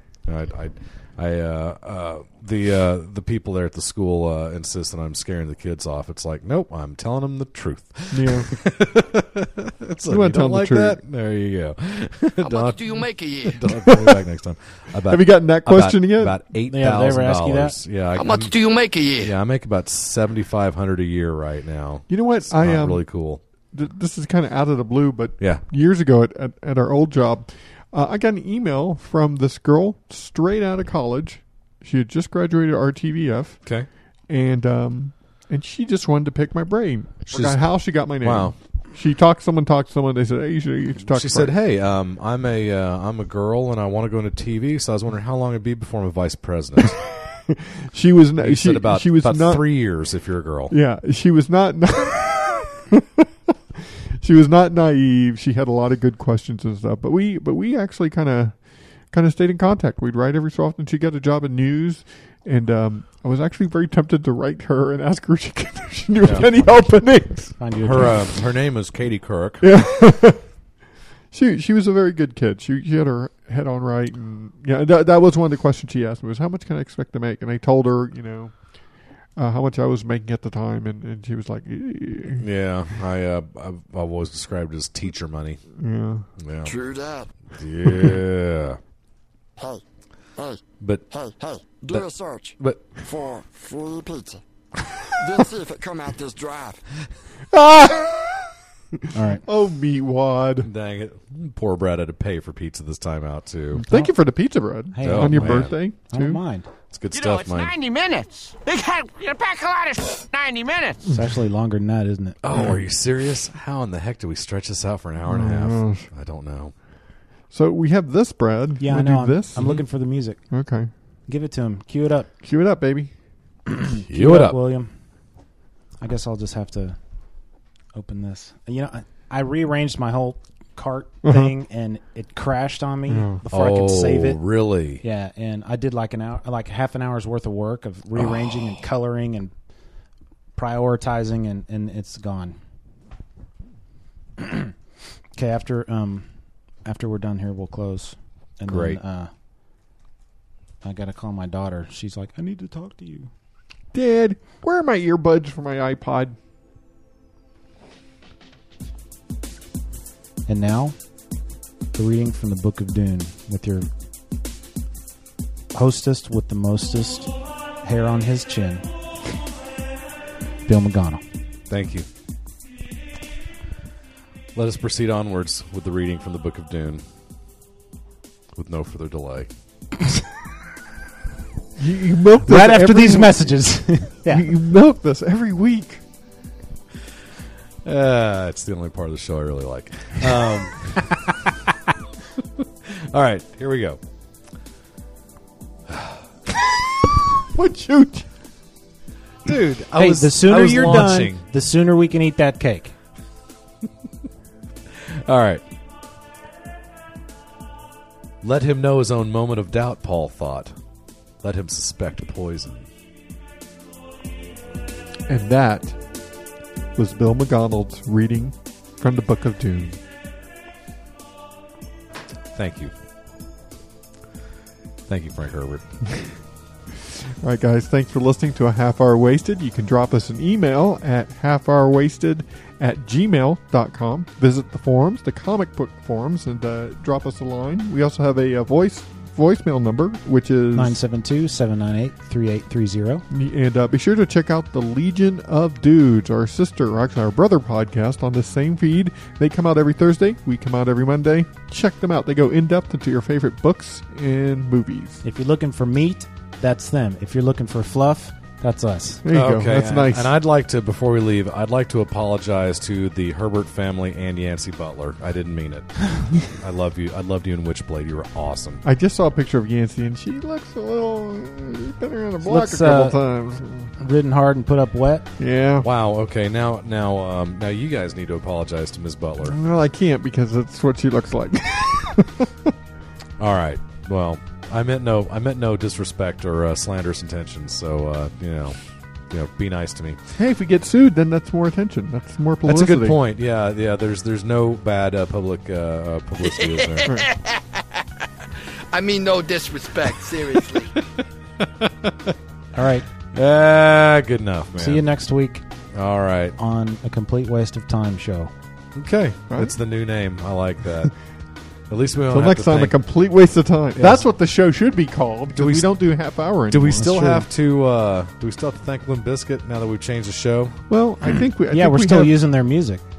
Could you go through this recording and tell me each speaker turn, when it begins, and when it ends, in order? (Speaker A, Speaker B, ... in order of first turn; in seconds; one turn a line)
Speaker A: 0.2-23.4
Speaker B: 8.1-8.5
Speaker B: 10.1-11.0
Speaker C: 12.4-13.9
Speaker B: 15.1-16.4
Speaker D: 16.7-17.8
Speaker C: 18.1-19.4
Speaker B: 22.1-23.1
Speaker B: 23.7-33.7
Speaker A: 25.4-25.6
Speaker B: 34.3-41.5
Speaker A: 37.3-38.6
Speaker A: 41.1-47.0
Speaker B: 47.4-49.6
Speaker A: 48.4-50.8
Speaker B: 50.7-68.2
Speaker A: 66.2-66.5
Speaker D: 67.6-68.2
Speaker A: 67.8-69.7
Speaker B: 69.6-70.5
Speaker B: 71.3-78.8
Speaker B: 79.4-82.5
Speaker A: 82.4-85.6
Speaker B: 85.8-86.3
Speaker A: 86.4-86.7
Speaker C: 86.6-87.3
Speaker A: 87.5-88.8
Speaker C: 89.6-89.8
Speaker C: 90.4-94.4
Speaker A: 90.8-91.0
Speaker A: 92.6-92.9
Speaker C: 95.2-96.8
Speaker B: 97.5-98.5
Speaker D: 99.1-99.4
Speaker B: 99.2-100.7
Speaker A: 100.6-103.9
Speaker D: 103.9-104.1
Speaker B: 103.9-106.4
Speaker D: 104.9-106.7
Speaker A: 105.0-105.8
Speaker A: 106.9-107.8
Speaker C: 107.1-111.0
Speaker B: 111.1-111.3
Speaker D: 111.1-112.4
Speaker A: 112.4-116.7
Speaker B: 115.3-116.1
Speaker B: 117.5-119.8
Speaker D: 118.8-120.5
Speaker B: 120.5-120.9
Speaker D: 121.3-122.3
Speaker B: 122.4-123.1
Speaker D: 123.9-124.9
Speaker A: 124.1-124.6
Speaker D: 126.0-127.0
Speaker D: 127.9-134.4
Speaker B: 131.2-131.5
Speaker B: 133.1-133.4
Speaker A: 133.5-135.0
Speaker D: 135.0-139.5
Speaker A: 138.2-138.7
Speaker D: 140.6-142.6
Speaker D: 144.4-144.7
Speaker D: 145.4-146.3
Speaker D: 146.8-149.3
Speaker A: 148.7-149.0
Speaker D: 150.8-153.3
Speaker B: 153.9-156.4
Speaker D: 160.5-161.0
Speaker D: 161.9-163.9
Speaker D: 165.7-167.3
Speaker D: 167.8-168.9
Speaker D: 170.7-171.2
Speaker A: 171.7-172.1
Speaker A: 174.6-177.0
Speaker A: 178.5-179.5
Speaker B: 181.8-183.6
Speaker D: 182.5-184.5
Speaker B: 184.2-186.0
Speaker A: 187.8-191.2
Speaker A: 192.6-194.0
Speaker A: 195.9-196.2
Speaker B: 197.5-198.3
Speaker A: 199.4-201.4
Speaker D: 200.0-202.9
Speaker A: 205.2-205.6
Speaker A: 208.4-210.7
Speaker A: 211.4-212.9
Speaker B: 215.3-216.0
Speaker B: 216.9-220.0
Speaker A: 222.5-222.9
Speaker A: 225.1-225.9
Speaker B: 227.4-241.0
Speaker D: 240.8-243.2
Speaker B: 243.3-255.2
Speaker D: 255.2-259.2
Speaker B: 259.2-260.4
Speaker A: 259.3-268.8
Speaker B: 268.8-273.9
Speaker D: 272.4-273.2
Speaker D: 274.0-275.3
Speaker B: 275.4-275.9
Speaker A: 275.8-279.6
Speaker B: 279.4-282.7
Speaker A: 283.4-288.8
Speaker A: 289.3-290.2
Speaker B: 290.4-293.2
Speaker A: 292.7-297.1
Speaker C: 296.6-297.8
Speaker C: 298.9-300.9
Speaker A: 301.6-302.4
Speaker D: 302.7-303.1
Speaker A: 303.3-305.1
Speaker D: 304.8-305.6
Speaker A: 305.9-306.6
Speaker D: 306.6-308.5
Speaker A: 308.9-311.1
Speaker A: 311.9-313.0
Speaker B: 312.3-317.4
Speaker A: 314.0-314.2
Speaker A: 315.6-320.8
Speaker D: 317.1-317.3
Speaker B: 320.9-322.4
Speaker D: 321.6-323.0